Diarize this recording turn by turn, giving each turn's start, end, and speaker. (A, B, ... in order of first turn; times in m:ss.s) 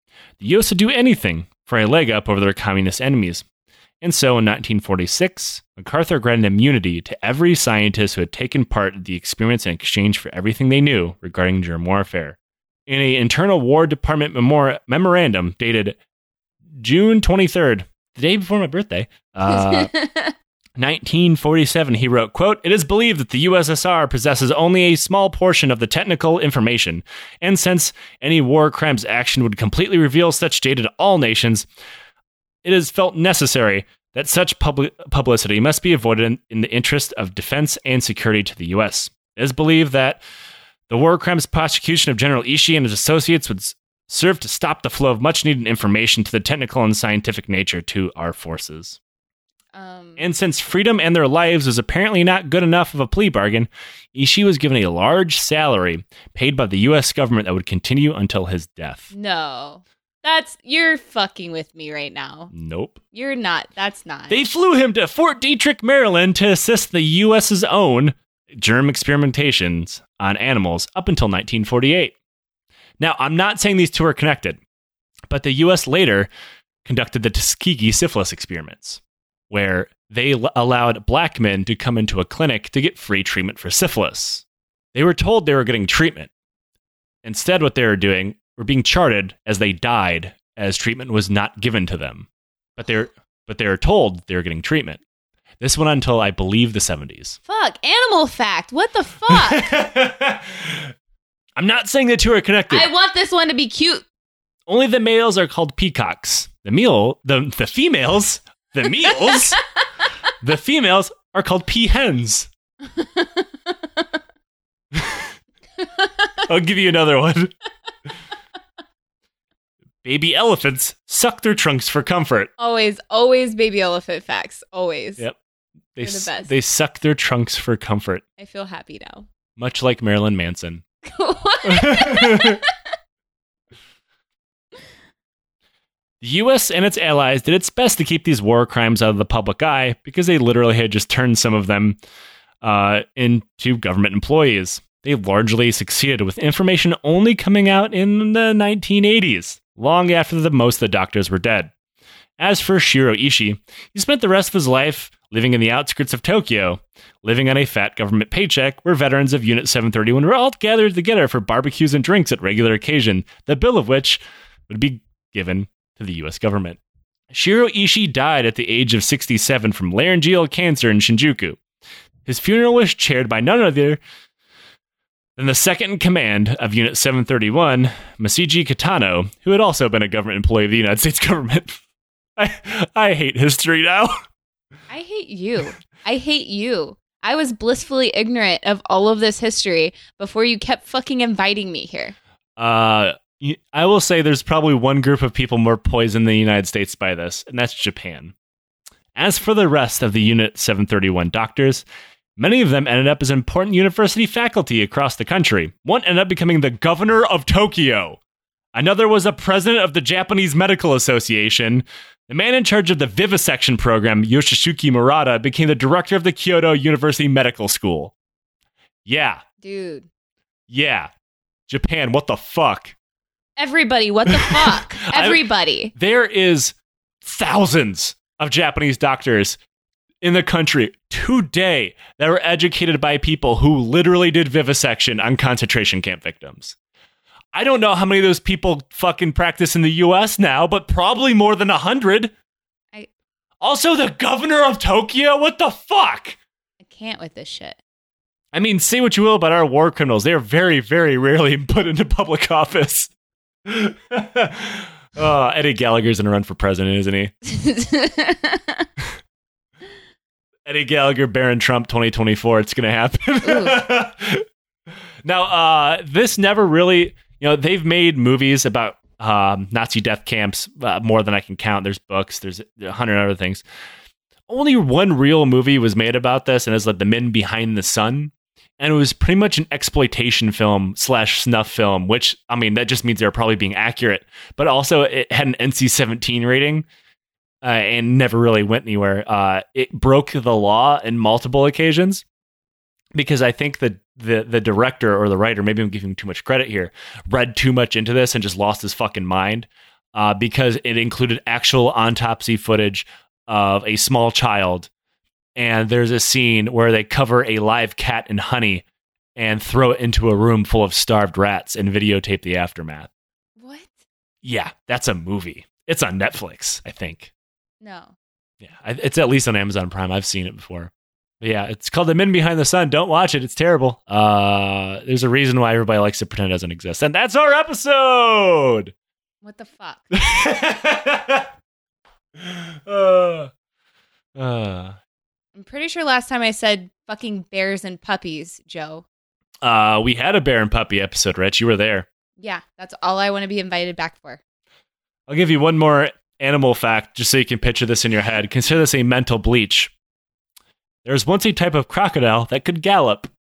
0:00.4-0:03.4 A
0:04.0-0:16.0 A
0:16.8-0:19.9 A
0:19.5-0:20.3 B
0:20.8-0:31.7 A
0:32.6-0:40.2 A
0:40.9-0:49.0 A
0:49.7-0:50.2 B
0:50.2-0:59.1 A
0:59.1-1:02.5 B
1:02.5-1:03.0 A
1:03.1-1:04.4 B
1:04.3-1:12.1 A
1:13.0-1:14.6 A
1:15.3-1:16.3 A
1:16.8-1:26.3 A
1:27.2-1:35.0 A
1:35.6-1:37.4 A
1:37.5-1:39.8 B
1:39.3-1:40.9 A
1:41.6-1:42.9 A
1:42.7-1:44.0 B
1:44.7-1:49.6 A
1:49.0-1:49.6 B
1:50.4-1:52.5 A
1:52.8-1:54.2 B
1:54.9-1:55.3 A
1:55.8-1:56.4 B
1:56.4-1:57.5 A
2:00.0-2:02.5 A
2:02.6-2:05.2 B
2:06.0-2:08.2 A
2:06.0-2:06.5 B
2:08.4-2:09.3 B
2:09.6-2:10.8 A
2:11.0-2:12.7 B
2:11.6-2:12.6 A
2:16.2-2:22.0 A
2:22.6-2:31.7 A
2:32.4-2:46.8 A
2:47.3-2:51.6 A
2:52.2-2:54.0 A
2:55.4-3:01.8 A
3:02.4-3:04.2 A
3:04.9-3:12.1 B
3:12.6-3:18.3 A
3:19.1-3:21.8 A
3:22.4-3:28.2 A
3:28.7-3:38.1 A
3:39.0-3:39.4 A
3:39.6-3:40.1 B
3:40.7-3:41.1 A
3:41.7-3:43.0 A
3:43.6-3:45.9 B
3:44.3-3:49.6 A
3:50.2-3:56.8 A
3:57.5-4:02.3 A
4:03.6-4:06.4 A
4:06.8-4:07.8 B
4:08.5-4:13.1 A
4:13.6-4:17.3 A
4:17.4-4:18.9 B
4:20.6-4:24.4 A
4:23.4-4:23.8 B
4:25.2-4:33.6 A
4:34.5-4:46.8 A
4:47.6-4:52.2 A
4:53.1-5:04.9 A
5:05.6-5:08.8 A
5:09.4-5:13.1 A
5:13.6-5:14.0 B
5:14.4-5:17.3 A
5:17.8-5:18.1 B
5:18.6-5:28.9 A
5:29.4-5:30.1 B
5:30.1-5:31.5 A
5:32.4-5:33.5 A
5:34.4-5:35.0 A
5:35.5-5:39.0 B
5:39.6-5:42.0 A
5:42.4-5:44.4 B
5:45.3-5:49.9 A
5:51.0-5:53.3 A